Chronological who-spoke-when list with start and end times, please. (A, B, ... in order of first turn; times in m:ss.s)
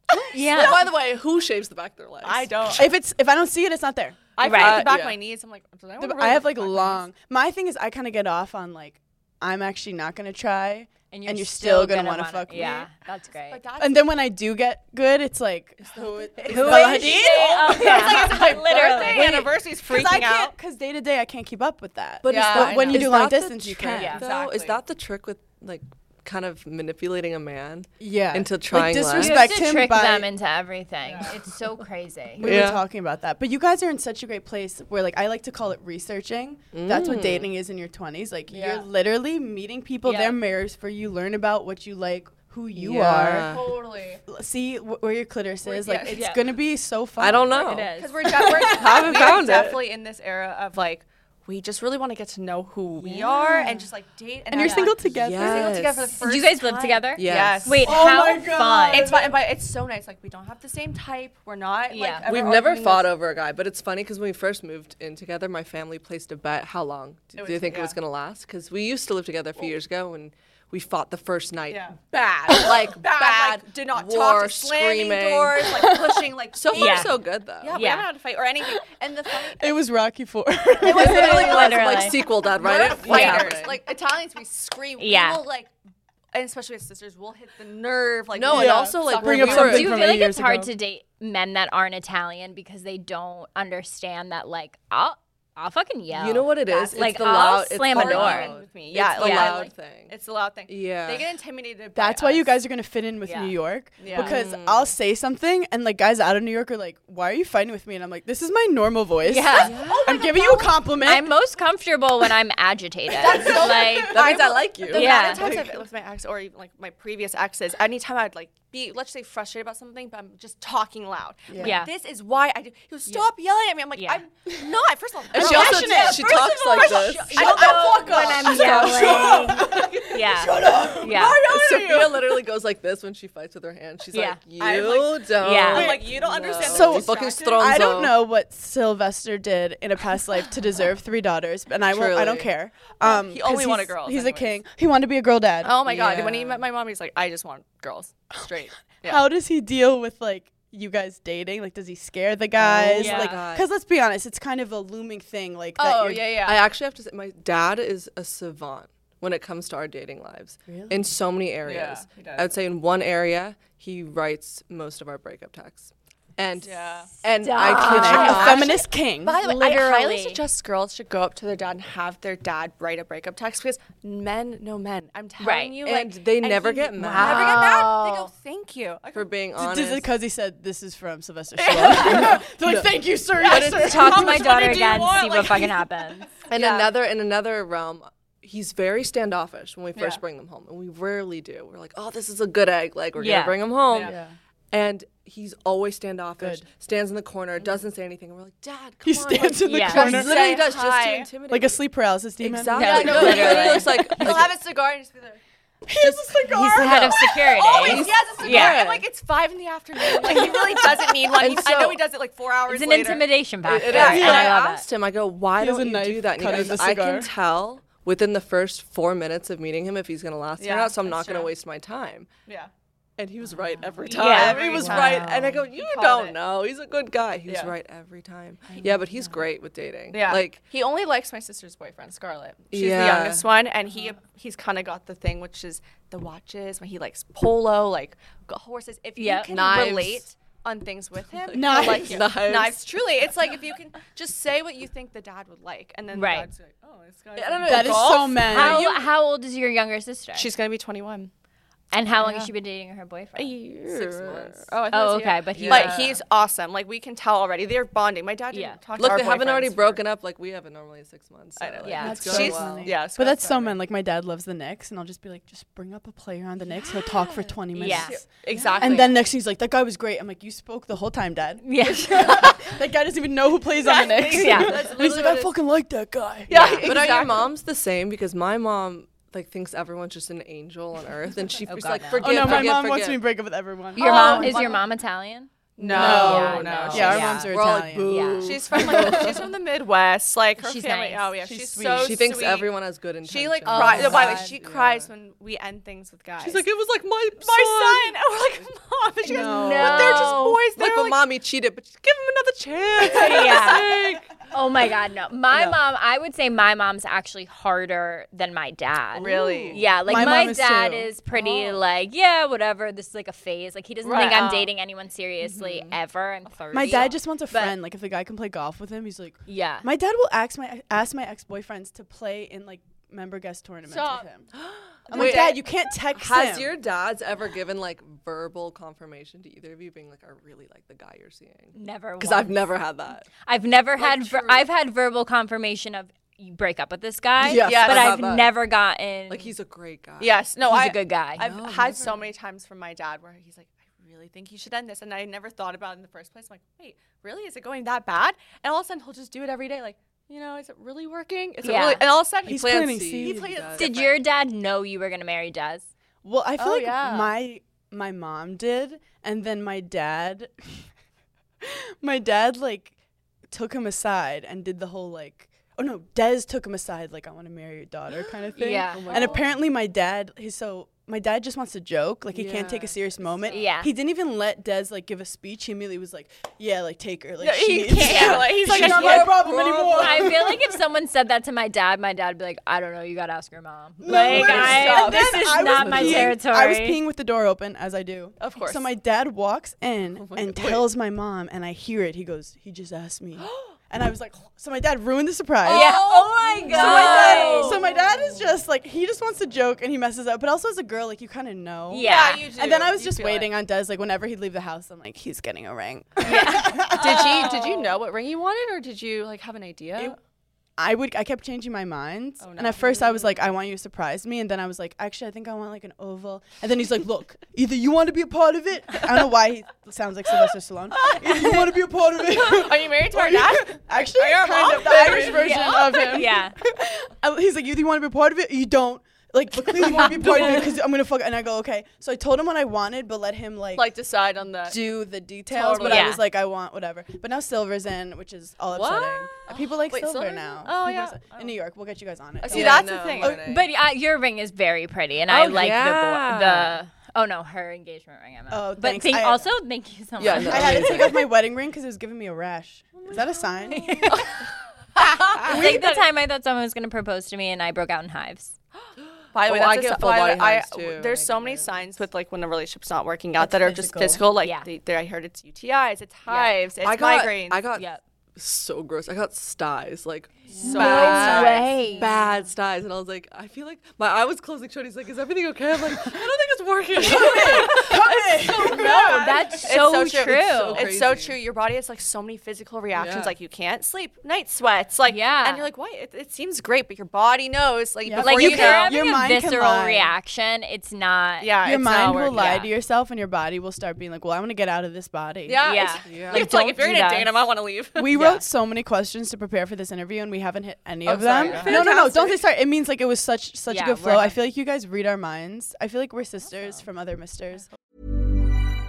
0:00.1-0:00.9 A
0:00.3-0:00.8 B
0:00.5-0:02.6 C
0:02.2-0:02.9 A
0:02.8-0:04.2 D
0:04.4-0:07.0 A
0:04.4-0:04.9 B
0:04.4-0:05.2 C
0:06.0-0:12.9 D
0:11.1-0:13.6 B
0:12.5-0:12.9 A
0:13.5-0:14.2 A
0:13.8-0:19.3 D
0:15.8-0:17.2 C
0:16.4-0:19.5 B
0:16.5-0:20.6 A
0:19.8-0:24.2 D
0:22.2-0:29.4 C
0:22.3-0:23.2 A
0:24.0-0:24.2 B
0:24.0-0:24.8 A
0:28.0-0:30.3 D
0:29.2-0:32.5 B
0:31.1-0:31.3 A
0:32.4-0:43.6 D
0:32.4-0:32.8 C
0:36.7-0:37.5 C
0:38.5-0:38.9 A
0:40.0-0:40.4 B
0:42.7-0:43.7 C
0:43.2-0:44.2 A
0:44.3-0:49.0 D
0:45.6-0:46.3 A
0:46.1-0:46.4 B
0:47.2-0:49.8 C
0:47.5-0:48.1 B
0:48.0-0:57.9 A
0:53.0-0:53.6 B
0:53.4-0:53.7 D
0:54.5-0:55.8 D
0:54.6-0:54.9 B
0:55.2-0:56.1 C
0:56.2-0:59.1 B
0:57.2-0:57.8 C
0:57.8-0:59.4 D
0:58.9-1:03.1 A
1:01.9-1:02.3 B
1:02.3-1:15.9 C
1:07.4-1:08.0 A
1:11.7-1:19.8 A
1:16.6-1:17.8 C
1:16.7-1:17.1 B
1:17.7-1:18.1 B
1:19.5-1:21.5 D
1:20.8-1:25.7 A
1:20.8-1:22.2 B
1:20.9-1:23.8 C
1:23.1-1:23.5 B
1:25.0-1:25.4 B
1:26.3-1:30.0 A
1:28.3-1:30.0 C
1:28.5-1:30.8 D
1:29.5-1:38.5 B
1:36.1-1:40.1 C
1:37.9-1:42.6 A
1:39.2-1:39.6 B
1:40.7-1:41.3 C
1:42.0-1:51.3 D
1:43.2-1:43.6 B
1:44.0-1:44.4 A
1:44.1-1:44.9 C
1:49.2-1:49.8 B
1:49.6-1:50.8 A
1:49.6-1:50.2 C
1:51.0-1:54.2 B
1:53.1-2:12.4 A
1:53.2-1:55.8 C
1:54.9-1:55.4 B
2:01.5-2:01.8 D
2:01.6-2:01.9 B
2:04.0-2:04.2 B
2:05.3-2:09.6 C
2:05.3-2:11.4 D
2:05.5-2:11.4 B
2:11.5-2:18.2 C
2:14.1-2:14.4 B
2:14.6-2:17.8 A
2:15.4-2:16.0 B
2:16.6-2:25.8 D
2:21.9-2:22.5 C
2:23.0-2:24.6 A
2:25.6-2:29.2 A
2:25.8-2:26.6 C
2:29.0-2:36.3 D
2:32.6-2:33.7 C
2:33.0-2:33.4 B
2:35.8-2:36.7 A
2:36.4-2:48.7 C
2:41.6-2:42.5 A
2:46.6-2:59.3 A
2:47.4-2:48.7 B
2:47.7-2:49.4 D
2:49.4-2:50.4 B
2:55.4-2:55.8 B
2:55.8-2:57.9 C
2:57.0-2:58.3 B
2:59.1-3:00.1 C
2:59.6-3:04.7 D
3:01.6-3:02.5 A
3:01.8-3:02.9 C
3:03.4-3:05.8 A
3:03.5-3:04.3 C
3:03.8-3:06.3 B
3:06.4-3:06.9 A
3:06.5-3:14.2 C
3:10.0-3:10.2 A
3:13.2-3:13.6 B
3:13.9-3:14.2 A
3:14.0-3:14.4 D
3:14.7-3:21.8 C
3:16.4-3:16.6 D
3:17.6-3:17.9 A
3:19.0-3:20.6 D
3:19.7-3:20.2 B
3:19.9-3:21.3 A
3:21.5-3:24.3 D
3:22.4-3:24.5 C
3:22.7-3:25.4 A
3:22.7-3:24.1 B
3:25.8-3:27.6 D
3:26.0-3:26.4 C
3:26.4-3:28.8 B
3:27.6-3:33.3 A
3:27.8-3:29.1 C
3:30.2-3:30.9 D
3:30.3-3:30.9 B
3:31.4-3:32.0 C
3:32.7-3:34.9 B
3:33.6-3:42.3 C
3:33.9-3:34.5 A
3:34.0-3:34.5 D
3:35.6-3:37.3 D
3:40.6-3:41.5 A
3:43.2-3:50.6 C
3:43.8-3:46.4 A
3:44.1-3:45.5 B
3:47.5-3:47.7 A
3:48.7-3:49.4 A
3:50.1-4:09.0 A
3:52.7-3:53.5 C
3:59.2-3:59.5 B
3:59.5-4:00.3 C
4:01.5-4:02.8 C
4:01.5-4:02.2 D
4:06.1-4:06.5 B
4:07.4-4:09.0 C
4:07.6-4:08.9 D
4:08.5-4:10.5 B
4:10.4-4:11.3 A
4:11.9-4:13.6 B
4:12.2-4:12.5 A
4:13.4-4:20.0 A
4:13.9-4:14.7 C
4:14.9-4:16.0 B
4:15.5-4:16.2 C
4:18.5-4:18.8 B
4:19.0-4:23.0 C
4:21.6-4:23.8 A
4:21.8-4:22.2 B
4:22.0-4:36.8 D
4:27.7-4:28.2 B
4:27.8-4:29.3 A
4:28.5-4:29.1 C
4:31.6-4:32.7 B
4:33.8-4:35.2 A
4:34.3-4:34.7 B
4:34.5-4:35.5 C
4:36.5-4:37.5 A
4:36.5-4:36.9 B
4:36.6-4:43.2 C
4:41.7-4:42.8 B
4:42.2-4:44.7 D
4:44.0-4:47.5 B
4:44.0-4:44.8 A
4:45.8-4:47.4 A
4:45.8-4:48.3 D
4:45.9-4:49.5 C
4:48.1-4:48.6 B
4:48.4-4:56.7 A
4:49.0-4:49.2 D
4:50.6-4:51.3 B
4:51.4-4:52.3 D
4:52.0-4:55.1 C
4:53.7-4:54.5 D
4:53.9-4:54.2 B
4:56.4-4:58.6 C
4:57.4-5:01.2 A
4:59.2-5:00.3 D
4:59.3-5:00.6 B
4:59.9-5:04.3 C
5:03.0-5:03.9 B
5:04.5-5:17.8 B
5:09.2-5:09.8 A
5:09.2-5:10.0 C
5:09.2-5:11.2 D
5:11.3-5:11.8 C
5:14.0-5:14.7 A
5:15.4-5:16.0 C
5:16.7-5:24.5 D
5:19.5-5:19.9 B
5:23.9-5:24.3 A
5:24.6-5:33.3 C
5:25.1-5:26.8 D
5:25.1-5:25.6 A
5:31.7-5:32.7 B
5:33.4-5:39.5 B
5:34.0-5:34.6 A
5:37.4-5:38.6 C
5:37.5-5:38.2 A
5:39.3-5:40.4 C
5:40.2-5:54.2 A
5:40.6-5:41.5 B
5:41.4-5:42.3 C
5:51.6-5:52.1 B
5:52.4-5:53.5 D
5:52.5-5:53.9 C
5:53.8-5:55.9 B
5:56.2-6:00.9 D
5:56.6-5:57.3 A
6:01.6-6:02.9 D
6:03.5-6:20.7 D
6:08.6-6:09.4 B
6:08.9-6:09.6 C
6:09.1-6:09.4 A
6:12.3-6:13.0 C
6:13.5-6:13.9 B
6:17.4-6:19.5 A
6:18.0-6:18.4 B
6:18.6-6:20.5 C
6:20.0-6:27.0 B
6:24.0-6:36.0 D
6:24.1-6:25.8 A
6:24.3-6:25.0 C
6:25.7-6:26.3 C
6:28.4-6:28.9 A
6:30.2-6:30.9 C
6:35.6-6:38.3 A
6:35.7-6:37.8 B
6:36.1-6:37.7 C
6:36.7-6:48.0 D
6:41.9-6:42.4 B
6:42.0-6:43.5 A
6:46.2-6:47.0 B
6:47.0-6:50.2 A
6:50.8-7:13.9 D
6:52.4-6:53.5 A
7:01.0-7:01.4 A
7:02.3-7:06.1 A
7:05.3-7:06.5 B
7:09.9-7:10.3 B
7:13.8-7:14.8 A
7:14.6-7:23.4 D
7:15.5-7:16.1 A
7:15.8-7:16.2 B
7:18.7-7:19.4 C
7:19.5-7:21.6 A
7:22.4-7:23.4 A
7:22.5-7:23.7 C
7:23.4-7:31.0 B
7:25.3-7:26.8 C
7:28.5-7:29.5 D
7:30.2-7:31.2 C
7:30.4-7:34.1 D
7:33.7-7:34.3 B
7:35.3-7:38.5 B
7:35.4-7:36.0 D
7:39.3-7:47.6 A
7:39.5-7:41.9 C
7:43.4-7:44.3 D
7:44.4-7:44.7 B
7:46.3-7:46.6 B
7:46.8-7:59.3 C
7:47.8-7:48.0 B
7:50.5-7:51.5 D
7:50.6-7:52.1 B
7:50.6-7:51.8 A
7:57.0-7:59.4 D
7:57.1-8:09.0 A
7:58.8-8:00.9 B
8:00.3-8:01.4 C
8:02.9-8:03.3 C
8:05.1-8:05.7 B
8:08.0-8:10.1 D
8:08.2-8:11.5 B
8:11.4-8:12.6 A
8:11.6-8:15.7 D
8:12.3-8:12.7 B
8:15.5-8:18.3 A
8:15.6-8:17.3 B
8:16.1-8:16.5 C
8:18.0-8:27.7 D
8:18.2-8:18.4 B
8:21.1-8:21.9 A
8:21.4-8:22.4 C
8:23.7-8:24.4 B